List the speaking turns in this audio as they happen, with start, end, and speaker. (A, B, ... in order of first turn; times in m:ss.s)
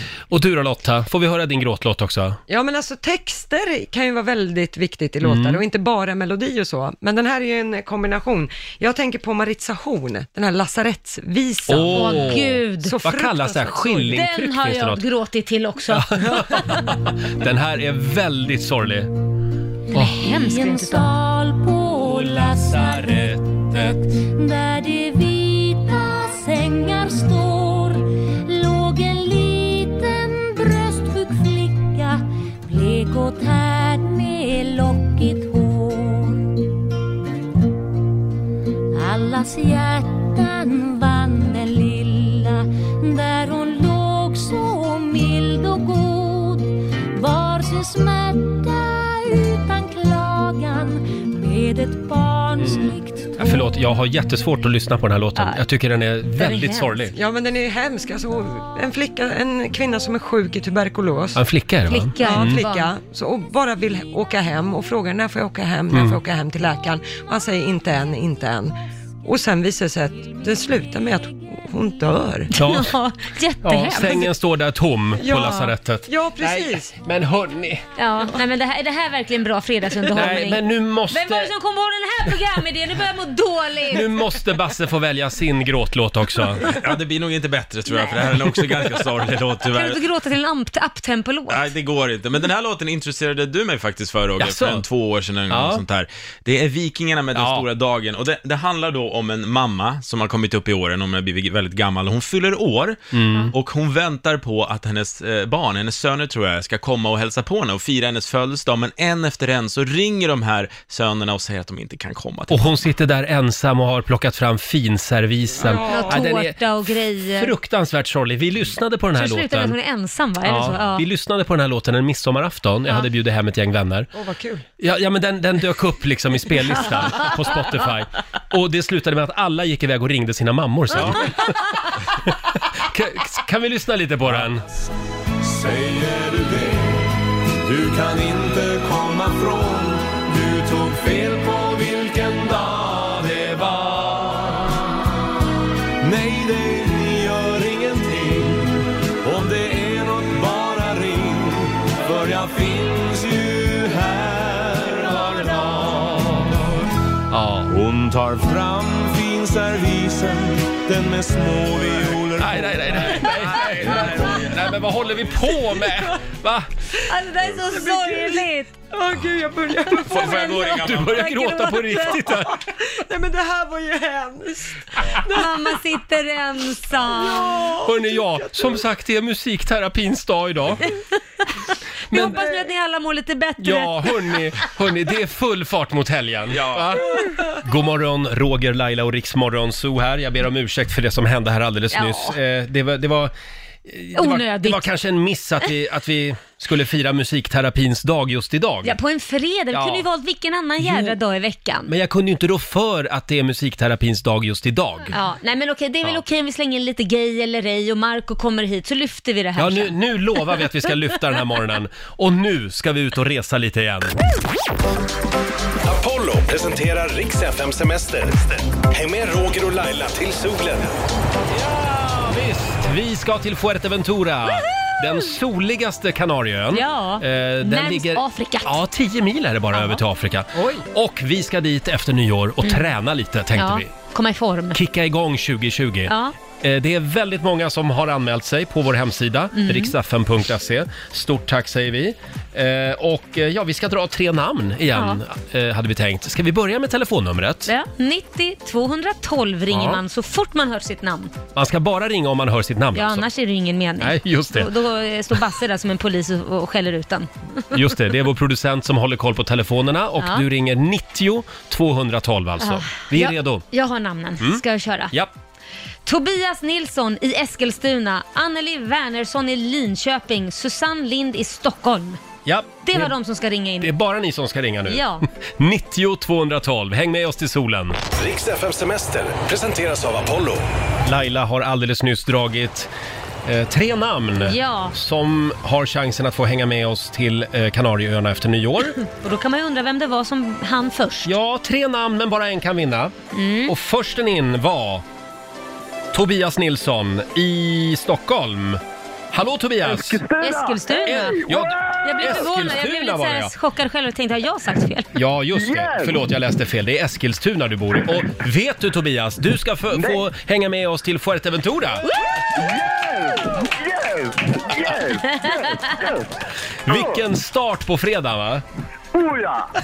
0:00.3-0:02.4 A
0:02.5-0:14.2 B
0:05.2-0:05.6 A
0:11.7-0:15.0 A
0:11.9-0:13.0 C
0:14.1-0:16.6 C
0:15.9-0:19.1 A
0:19.9-0:21.1 C
0:19.9-0:20.2 A
0:20.1-0:36.6 D
0:22.0-0:23.9 A
0:38.9-0:53.6 D
0:52.6-0:57.1 A
0:55.4-0:55.6 C
0:56.4-0:57.0 C
0:57.1-1:01.4 B
1:01.3-1:02.6 A
1:01.9-1:02.9 C
1:02.2-1:12.5 B
1:05.9-1:06.2 A
1:12.5-1:12.9 A
1:12.6-1:14.3 C
1:13.6-1:17.8 A
1:15.2-1:16.9 B
1:18.0-1:24.3 C
1:20.1-1:21.5 A
1:23.9-1:26.7 A
1:26.7-1:30.0 E
1:29.7-1:31.6 C
1:31.5-1:43.0 E
1:34.4-1:34.8 A
1:35.5-1:35.8 A
1:37.3-1:37.7 A
1:43.1-1:43.5 A
1:43.5-1:52.7 E
1:52.5-1:56.6 A
1:55.6-1:56.3 B
1:55.7-1:57.5 C
1:57.3-1:59.7 A
1:59.1-2:01.0 C
2:00.4-2:04.1 A
2:04.1-2:04.6 B
2:04.8-2:14.6 A
2:15.4-2:17.0 F
2:17.6-2:24.9 F
2:26.0-2:36.6 F
2:37.3-2:37.7 A
2:37.7-2:44.4 F
2:42.4-2:46.7 A
2:47.1-2:48.8 C
2:47.6-2:50.6 B
2:50.1-2:52.4 C
2:50.1-2:52.6 A
2:50.3-2:50.9 E
2:52.9-2:55.4 B
2:55.2-2:57.6 C
2:57.1-2:58.4 B
2:57.8-3:00.8 A
3:02.1-3:02.4 A
3:02.1-3:04.1 C
3:03.6-3:13.3 A
3:11.9-3:12.3 C
3:13.8-3:18.9 A
3:14.1-3:14.9 C
3:18.8-3:21.9 C
3:19.7-3:20.0 A
3:20.8-3:21.1 A
3:21.9-3:25.1 A
3:25.1-3:30.0 C
3:29.6-3:34.2 A
3:35.8-3:40.9 G
3:41.5-3:53.9 A
3:46.7-3:48.8 C
3:49.7-3:50.0 C
3:50.6-3:50.8 B
3:52.6-3:52.9 C
3:53.5-3:54.8 C
3:54.7-4:07.7 A
3:56.1-3:56.3 C
3:59.5-3:59.9 C
4:04.9-4:05.2 C
4:07.7-4:11.3 C
4:09.7-4:10.0 A
4:11.5-4:13.3 A
4:12.9-4:17.6 C
4:14.0-4:14.7 A
4:17.7-4:23.6 A
4:22.6-4:25.1 C
4:24.4-4:25.3 A
4:26.0-4:32.2 C
4:32.4-4:33.1 A
4:32.8-4:33.9 C
4:33.8-4:38.0 A
4:34.9-4:35.2 C
4:38.2-4:40.6 G
4:41.0-4:42.9 A
4:43.4-4:49.0 A
4:44.4-4:44.9 C
4:49.0-4:51.3 C
4:51.2-4:53.1 A
4:53.3-4:53.7 C
4:53.7-4:55.0 A
4:56.1-4:58.8 A
4:59.3-5:00.2 A
4:59.8-5:02.0 H
5:00.4-5:01.5 C
5:01.0-5:03.5 A
5:02.0-5:05.1 C
5:05.1-5:12.0 A
5:05.5-5:06.2 H
5:09.9-5:10.2 H
5:12.2-5:16.3 H
5:16.9-5:18.6 A
5:16.9-5:17.2 H
5:19.1-5:19.7 H